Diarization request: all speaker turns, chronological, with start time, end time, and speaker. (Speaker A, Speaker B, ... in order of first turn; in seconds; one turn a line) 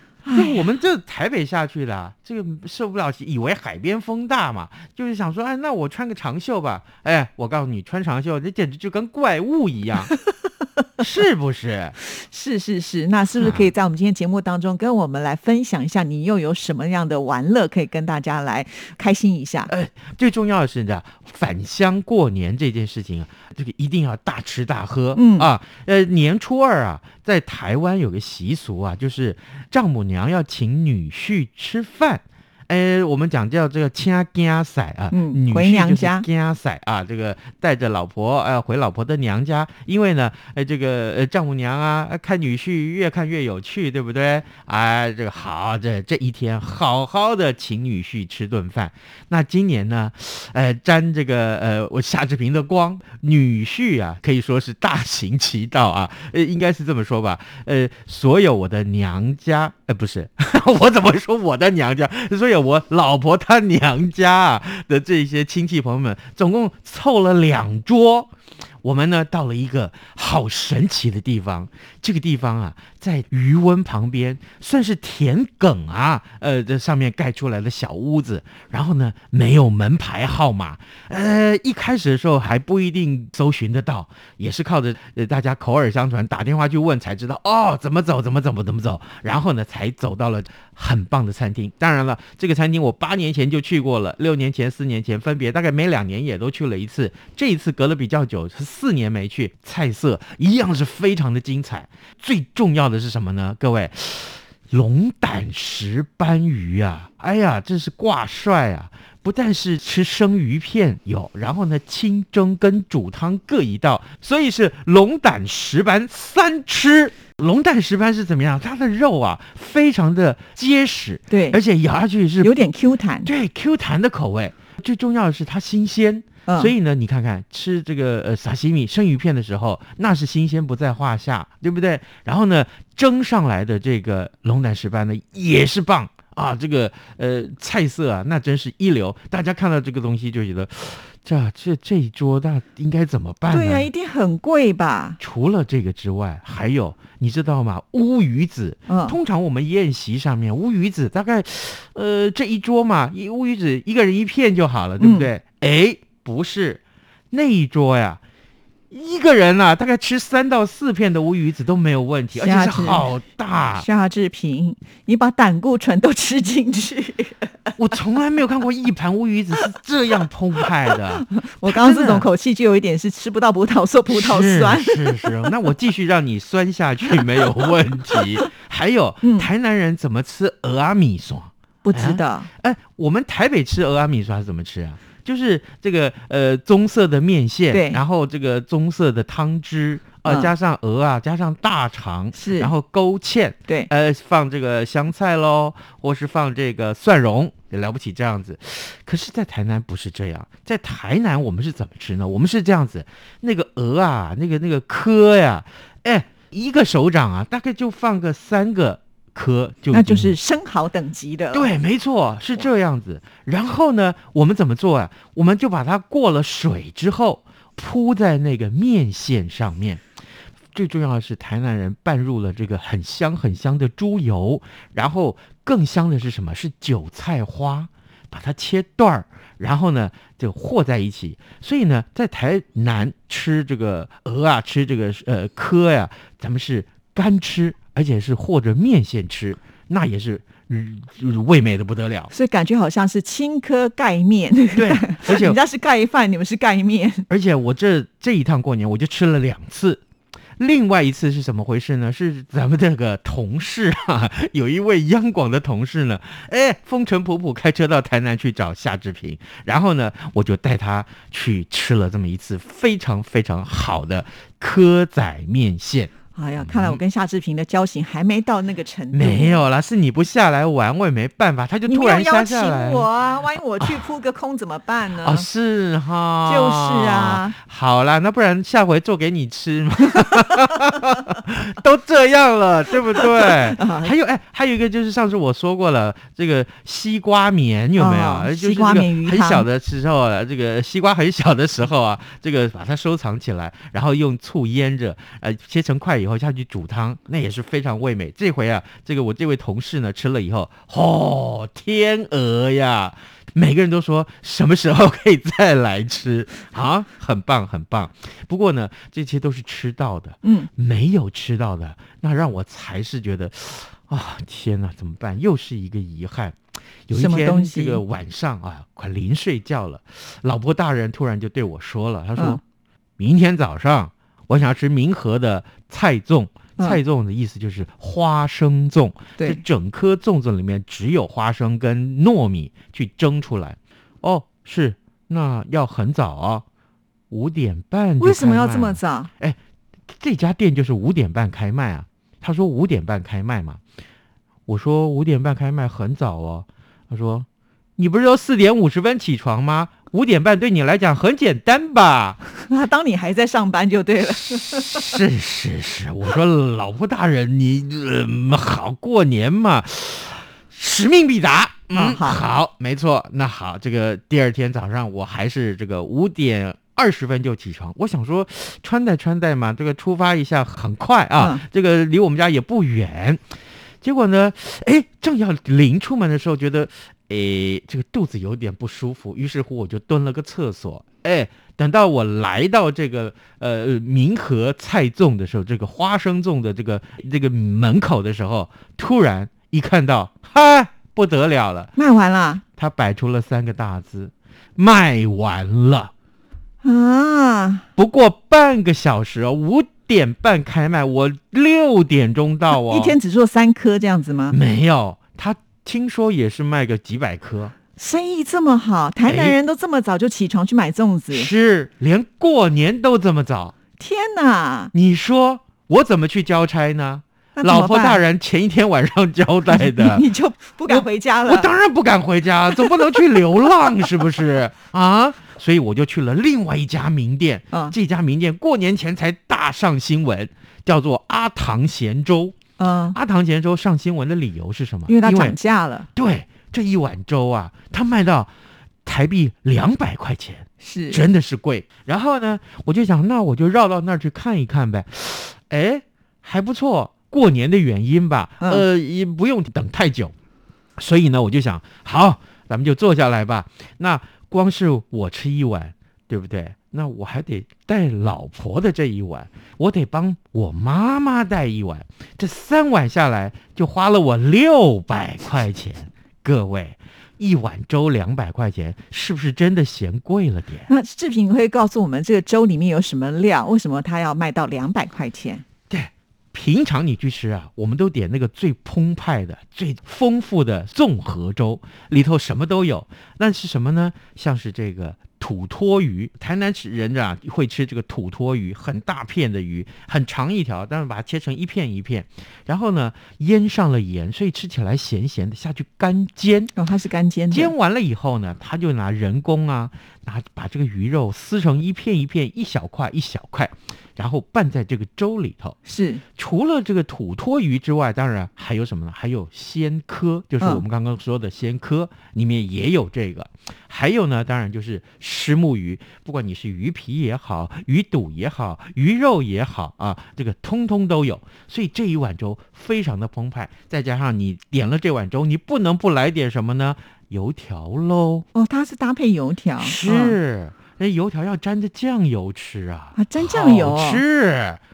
Speaker A: 0.2-0.7
Speaker B: 0.3-10.1
Speaker B: 11.0-11.9
Speaker A: 12.1-19.7
Speaker B: 13.4-13.7
Speaker B: 19.7-68.3
Speaker A: 25.1-25.5
Speaker A: 35.1-36.2
Speaker B: 68.8-122.7
Speaker A: 121.3-121.6
Speaker A: 122.4-123.3
Speaker B: 123.2-143.9
Speaker A: 126.5-126.7
Speaker A: 143.5-145.2
Speaker B: 145.2-156.8
Speaker A: 148.9-149.2
Speaker A: 155.0-155.3
Speaker B: 157.3-158.2
Speaker B: 158.9-163.8
Speaker A: 162.3-163.1
Speaker A: 163.8-167.7
Speaker B: 167.8-172.3
Speaker A: 170.9-175.4
Speaker B: 174.1-210.3
Speaker A: 179.2-179.5
Speaker A: 181.8-182.5
Speaker A: 187.7-188.0
Speaker A: 190.2-190.5
Speaker A: 192.3-192.7
Speaker A: 209.9-211.8
Speaker B: 211.5-220.0
Speaker B: 220.7-242.3
Speaker A: 242.3-247.3
Speaker B: 244.7-245.6
Speaker B: 247.3-250.0
Speaker B: 250.6-267.0
Speaker A: 266.3-269.6
Speaker B: 269.1-273.1
Speaker A: 271.9-275.5
Speaker B: 273.8-274.1
Speaker B: 275.1-316.6
Speaker A: 276.4-277.5
Speaker A: 283.4-284.1
Speaker A: 287.9-289.6
Speaker A: 310.4-310.7
Speaker B: 317.1-322.6
Speaker A: 317.1-318.0
Speaker B: 323.2-336.6
Speaker B: 337.3-339.6
Speaker A: 338.2-339.3
Speaker B: 340.1-343.8
Speaker B: 344.7-347.5
Speaker B: 348.0-352.4
Speaker A: 352.6-355.2
Speaker B: 354.5-373.4
Speaker A: 361.9-362.4
Speaker A: 371.4-371.6
Speaker B: 374.0-391.9
Speaker A: 391.9-392.6
Speaker B: 392.8-396.1
Speaker A: 396.8-397.9
Speaker B: 398.0-403.2
Speaker A: 402.7-404.6
Speaker B: 404.5-407.7
Speaker A: 408.0-411.5
Speaker B: 409.2-409.6
Speaker B: 411.3-413.7
Speaker A: 414.0-414.9
Speaker B: 414.9-420.2
Speaker A: 417.6-418.2
Speaker A: 419.7-421.7
Speaker B: 420.9-432.6
Speaker A: 422.8-423.2
Speaker A: 432.8-433.2
Speaker B: 433.1-435.6
Speaker A: 435.1-436.1
Speaker B: 436.1-438.5
Speaker B: 439.0-450.3
Speaker A: 440.8-441.2
Speaker B: 451.0-470.9
Speaker A: 470.9-475.6
Speaker B: 475.9-496.7
Speaker A: 496.8-497.7
Speaker B: 497.5-505.8
Speaker A: 505.8-506.2
Speaker B: 506.4-528.5
Speaker A: 528.5-530.4
Speaker B: 529.8-534.8
Speaker A: 533.1-534.2